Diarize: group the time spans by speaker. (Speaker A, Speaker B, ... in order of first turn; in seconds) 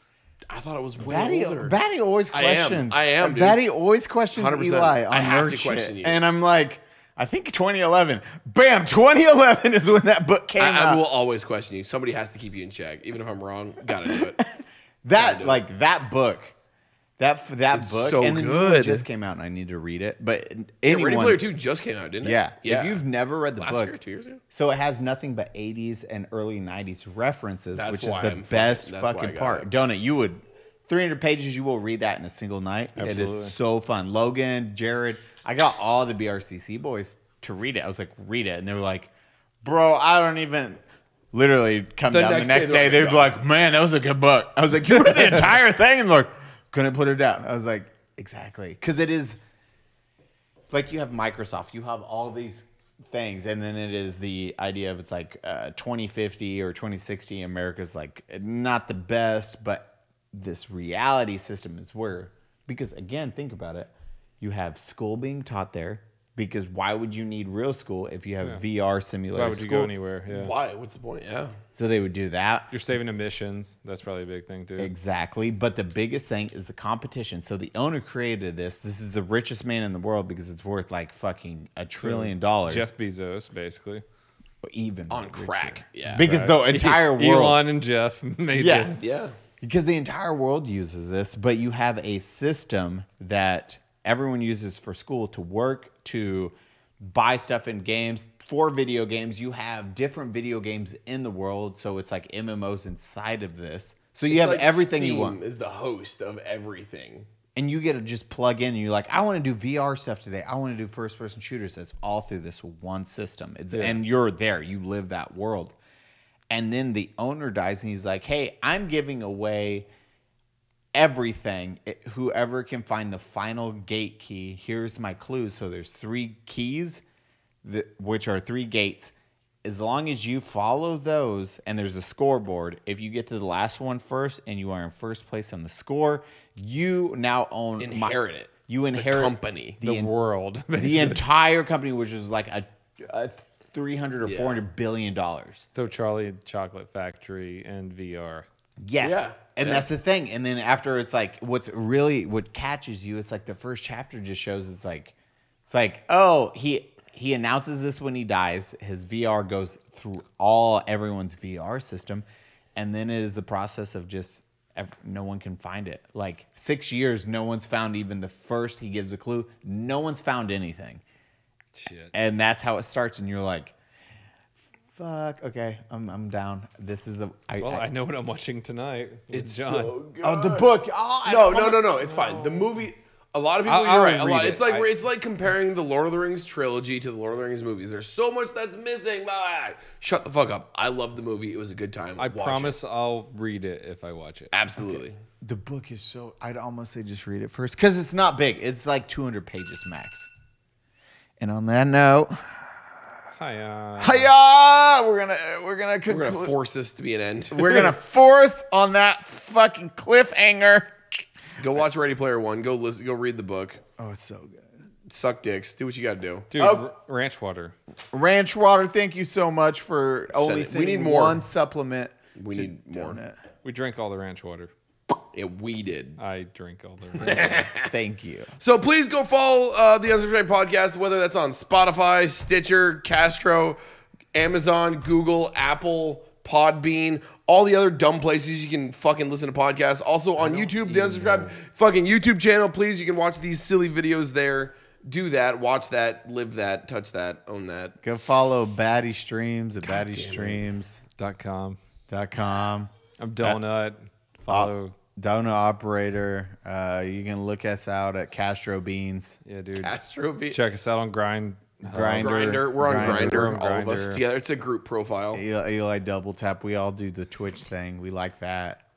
Speaker A: 0.5-1.8, 2.3-3.6, 4.3-6.2, 10.6-14.4, 15.2-15.6, 17.7-19.1, 20.9-23.0, 23.6-24.4, 27.8-29.7, 42.1-43.4, 70.3-71.5, 85.1-86.3, 89.0-89.3, 104.3-107.3, 137.8-139.8, 144.2-144.6, 149.0-149.9, 179.3-180.7, 181.2-192.8, 194.5-195.2, 206.1-208.0, 211.6-213.8, 215.1-216.8, 220.3-221.4, 222.4-223.2, 225.3-226.2, 227.2-227.9, 228.6-233.8, 234.3-248.0, 249.9-250.6, 259.8-260.6, 262.2-265.4
Speaker B: 1.0-11.0, 14.4-16.5, 17.2-21.4, 22.2-24.0, 24.5-39.1, 39.6-49.4, 50.7-69.9, 71.8-72.7, 74.8-82.9, 84.6-87.6, 88.5-89.0, 89.6-105.4, 107.6-115.8, 116.5-119.9, 120.9-127.0, 127.6-138.2, 138.7-140.1, 140.7-145.7, 148.8-155.2, 155.7-162.2, 162.8-171.0, 172.1-173.7, 175.0-177.9, 180.2-182.0, 195.4-200.3, 201.4-202.8, 204.0-206.6, 207.5-211.2, 214.0-214.7, 218.1-223.4, 227.8-228.5, 248.0-251.0, 252.1-253.6, 254.5-259.4, 261.8-263.6, 265.3-268.8
Speaker C: 33.0-33.5, 69.3-70.5, 72.7-74.9, 82.0-84.0, 86.2-89.1, 113.7-114.0, 139.8-141.2, 145.8-148.5, 171.8-172.1, 177.6-180.0, 182.3-182.6, 183.7-184.9, 192.2-194.5, 203.4-204.3, 216.5-217.8, 223.6-224.7, 226.2-227.7, 240.4-241.6, 251.2-251.8, 253.2-254.9, 259.4-259.9, 260.5-264.2